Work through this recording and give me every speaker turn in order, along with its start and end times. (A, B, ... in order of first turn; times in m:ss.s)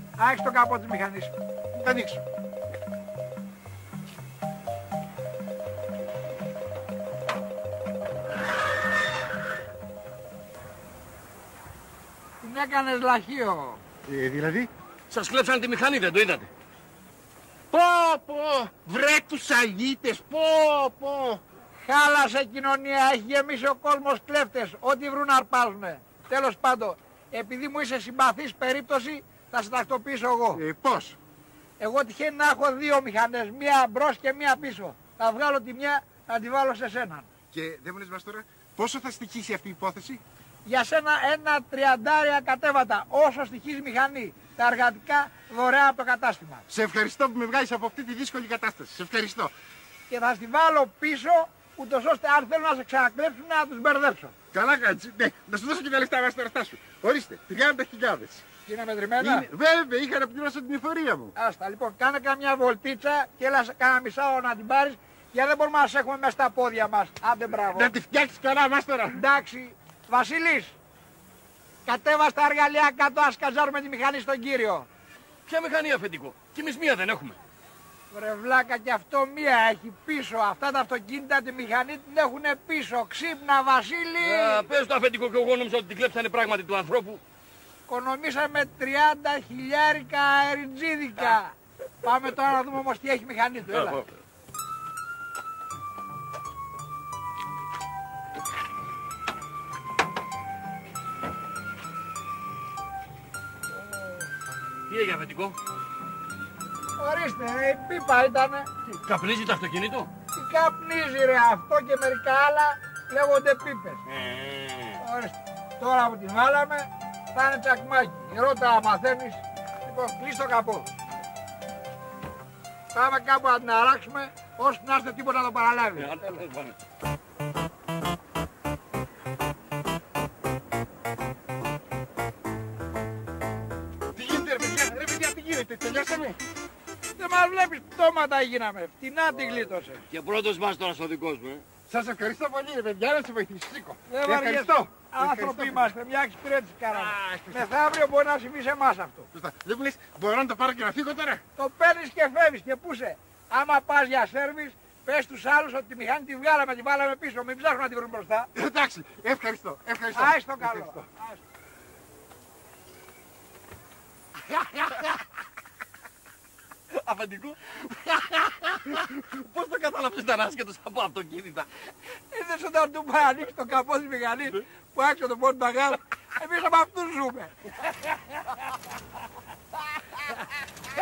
0:00.2-0:01.3 A
0:01.7-0:02.2 B
0:12.4-0:13.8 A
0:14.1-0:14.7 B
0:15.1-0:16.5 C
0:17.7-0:21.4 B
0:21.8-0:30.6 A
0:30.5-0:31.2 B
0:31.8-0:37.3 A
0:37.5-0:40.2 B
0:40.6-0:46.6 A
0:46.7-0:49.5 B
0:50.1-0:54.4 A
0:54.5-0:58.4 B
0:58.6-0:59.5 A
0:59.2-1:01.3 B
1:01.4-1:07.9 A
1:07.6-1:09.2 B
1:09.1-1:10.7 A
1:11.8-1:14.9 A
1:15.4-1:17.4 C
1:18.1-1:24.6 A
1:24.2-1:27.2 C
1:27.9-1:34.0 A
1:44.9-1:45.6 C
1:47.0-1:48.7 A
1:48.9-1:50.1 C
1:50.3-1:54.0 A
1:54.1-1:55.0 C
1:55.0-2:00.9 A
2:02.9-2:06.4 A
2:06.0-2:06.8 C
2:14.1-2:16.4 B
2:17.2-2:20.1 A
2:20.1-2:21.6 C
2:21.9-2:25.9 B
2:24.1-2:29.3 A
2:26.9-2:27.7 B
2:29.3-2:31.4 B
2:31.6-2:38.5 A
2:38.5-2:41.0 B
2:40.1-2:41.4 A
2:44.5-2:45.1 C
2:46.9-2:51.9 C
2:52.3-2:57.6 A